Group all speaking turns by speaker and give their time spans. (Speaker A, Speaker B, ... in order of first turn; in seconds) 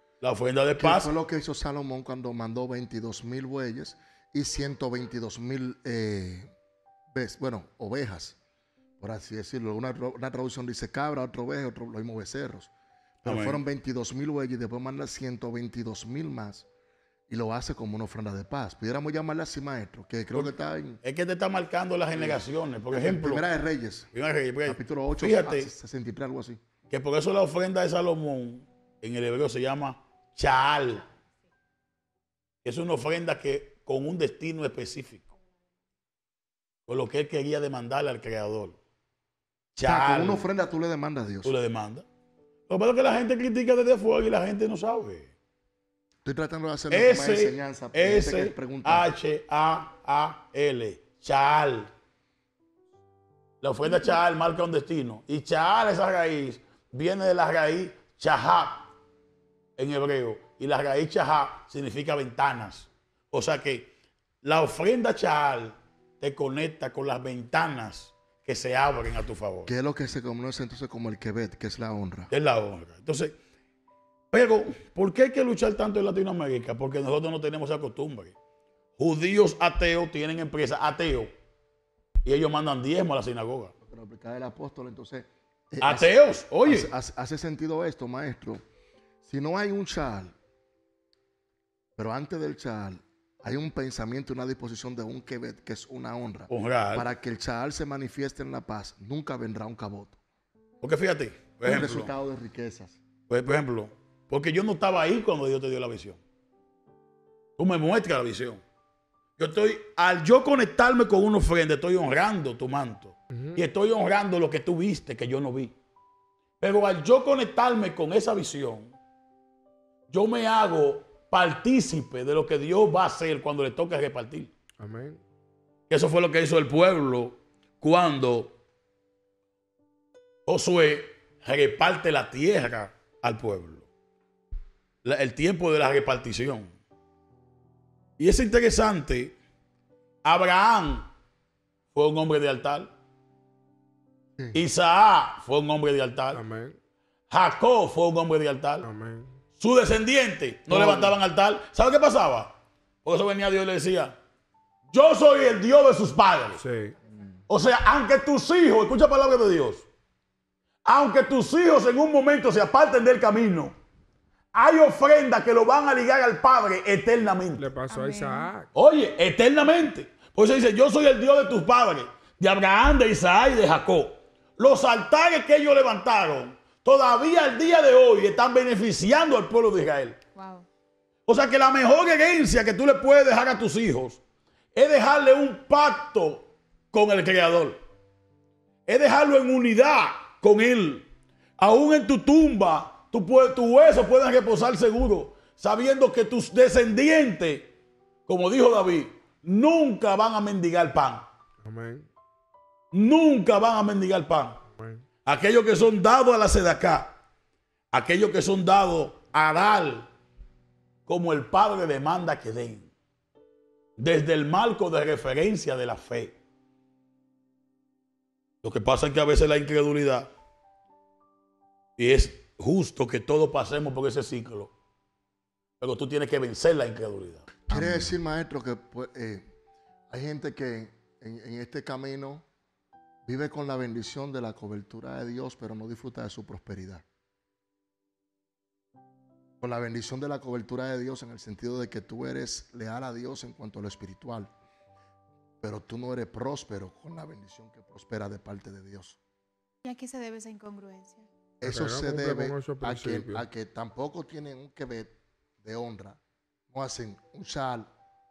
Speaker A: 0.2-1.1, 13.2-13.6, 21.0-23.4, 24.1-25.7, 26.9-31.0, 32.6-35.3, 36.9-38.8, 39.7-40.4, 41.4-42.0, 42.7-45.3, 46.9-51.9, 53.6-58.9, 59.8-63.9, 64.4-69.7, 72.3-73.3, 74.3-78.3, 79.0-81.3, 82.2-83.7, 85.8-86.9, 96.5-97.1, 100.8-102.1, 103.3-106.2, 107.6-108.6, 109.4-115.7, 116.6-119.0, 120.1-124.5, 125.9-128.5, 130.4-133.9, 135.0-136.7, 138.2-139.3, 140.2-141.1, 141.9-142.9, 144.5-146.4, 147.3-148.9, 149.6-152.5, 153.0-154.2, 154.9-156.6, 157.5-159.8, 160.8-163.7, 164.5-167.8, 168.7-180.2, 181.3-184.2, 184.7-187.8, 188.9-191.1, 191.6-197.7, 198.3-201.2, 202.9-204.6, 205.2-207.1, 207.9-210.1, 211.1-212.9, 214.0-216.3, 218.6-220.3, 222.0-224.7, 225.8-227.6
Speaker B: 0.8-6.5, 7.1-8.4, 9.0-12.7, 13.2-16.7, 17.3-21.0, 22.1-24.1, 24.6-26.6, 39.8-41.5, 46.2-49.1, 69.7-72.3, 83.8-86.1, 86.6-88.6, 89.2-90.3, 92.0-100.2, 101.6-103.0, 227.7-229.5, 230.1-232.4, 233.2-237.0, 239.6-244.5, 245.6-249.2, 251.6-256.2, 256.7-257.9
Speaker C: 113.3-113.6, 124.8-125.2, 146.3-146.8, 148.8-149.4, 150.7-151.1, 156.6-156.9, 167.6-168.7, 201.6-202.1, 204.8-205.0, 251.6-253.4
Speaker D: 167.9-168.5, 180.3-180.7, 249.8-251.3